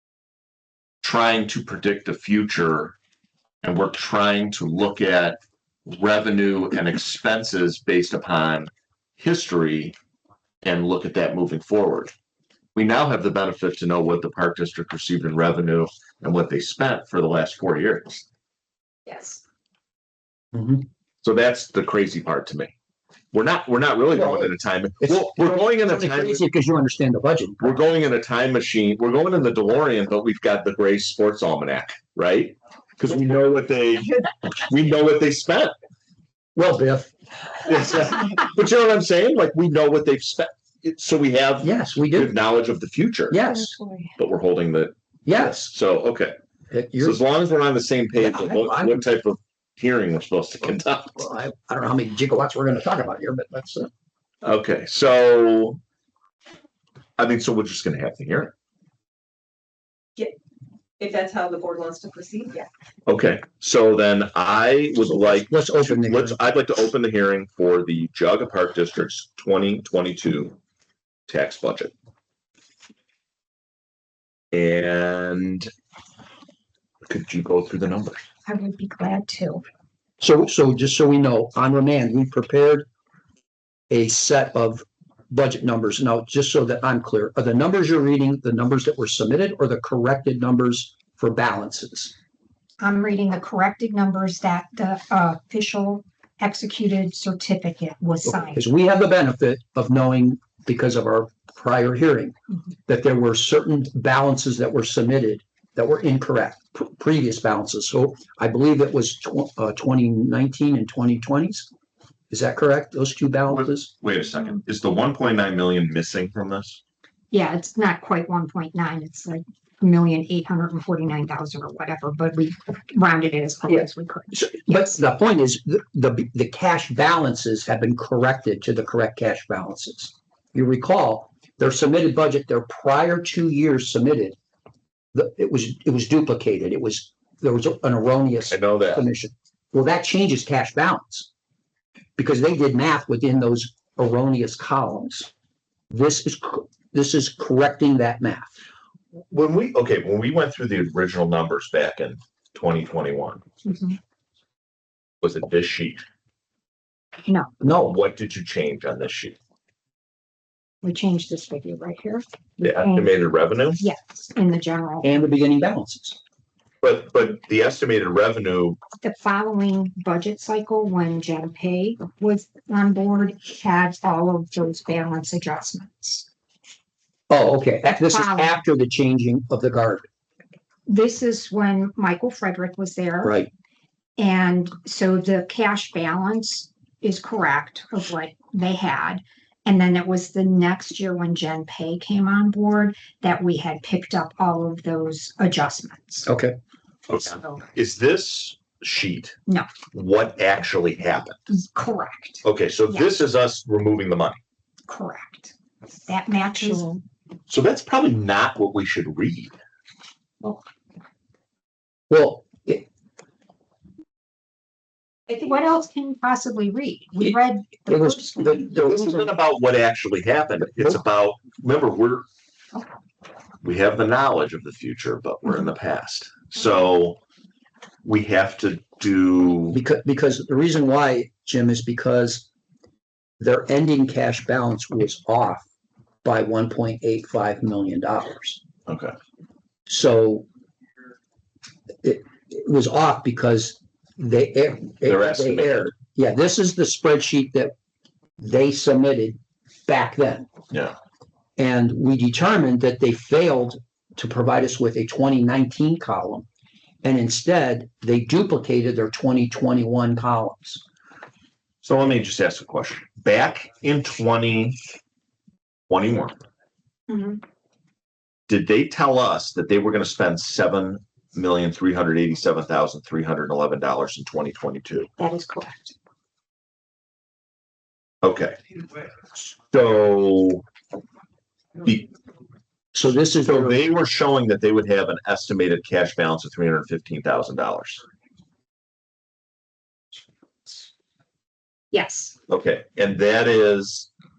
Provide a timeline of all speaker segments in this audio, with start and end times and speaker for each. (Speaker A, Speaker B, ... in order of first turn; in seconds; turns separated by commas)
Speaker A: 1.0-3.0, Speaker A: 3.6-10.0, Speaker A: 10.6-12.1, Speaker A: 12.8-18.2, Speaker B: 19.1-19.4, Speaker C: 20.5-20.9, Speaker A: 21.2-22.7, Speaker A: 23.3-26.4, Speaker C: 24.1-27.7, Speaker A: 27.6-35.7, Speaker C: 36.5-37.1, Speaker A: 37.6-43.4, Speaker C: 41.6-42.4, Speaker C: 43.3-43.8, Speaker D: 43.5-44.1, Speaker A: 44.2-46.3, Speaker C: 45.2-45.7, Speaker C: 46.7-47.2, Speaker A: 47.0-51.2, Speaker C: 48.2-49.0, Speaker C: 50.6-53.9, Speaker A: 54.4-55.8, Speaker A: 57.2-58.5, Speaker B: 61.0-62.7, Speaker A: 63.1-70.6, Speaker C: 65.1-66.4, Speaker A: 71.3-71.9, Speaker A: 74.5-75.7, Speaker A: 77.1-78.2, Speaker D: 78.5-79.6, Speaker C: 80.2-82.9, Speaker C: 83.9-92.1, Speaker D: 92.8-98.6, Speaker C: 98.2-102.3, Speaker C: 102.9-111.7, Speaker C: 112.3-113.9, Speaker A: 113.5-116.8, Speaker D: 117.3-125.0, Speaker C: 123.7-134.4, Speaker C: 135.1-141.3, Speaker A: 138.5-139.1, Speaker C: 142.2-145.3, Speaker C: 145.9-148.6, Speaker A: 149.3-153.4, Speaker D: 153.7-154.0, Speaker A: 155.2-156.0, Speaker D: 157.3-157.5, Speaker C: 157.6-157.9, Speaker A: 157.7-159.4, Speaker D: 160.8-163.1, Speaker A: 162.6-163.8, Speaker D: 163.8-165.1, Speaker C: 165.0-166.2, Speaker A: 166.8-168.8, Speaker D: 169.0-176.3, Speaker C: 177.3-180.1, Speaker D: 177.9-178.6, Speaker D: 180.9-183.4, Speaker C: 183.2-183.5, Speaker D: 184.2-196.3, Speaker C: 196.3-196.6, Speaker A: 197.1-199.3, Speaker A: 199.9-201.4, Speaker D: 201.5-203.1, Speaker A: 202.4-204.4, Speaker D: 204.9-205.5, Speaker D: 206.1-207.0, Speaker A: 207.5-209.6, Speaker C: 212.1-212.8, Speaker D: 215.3-218.6, Speaker C: 217.9-219.3, Speaker A: 218.7-222.2, Speaker A: 223.6-227.2, Speaker A: 228.0-229.8, Speaker C: 229.7-232.5, Speaker C: 233.4-235.7, Speaker C: 236.2-238.6, Speaker A: 238.9-239.1, Speaker C: 239.9-240.5, Speaker C: 242.0-247.7, Speaker A: 245.0-245.9, Speaker C: 248.4-250.5, Speaker C: 251.6-256.5, Speaker C: 257.0-260.8, Speaker A: 261.8-264.8, Speaker A: 265.9-266.4, Speaker D: 267.1-267.4, Speaker A: 268.5-275.1, Speaker D: 275.2-275.9, Speaker A: 278.2-278.6, Speaker A: 279.7-280.6, Speaker A: 281.8-282.1, Speaker C: 282.9-283.8, Speaker A: 283.4-288.0, Speaker D: 291.9-292.4, Speaker A: 292.5-294.1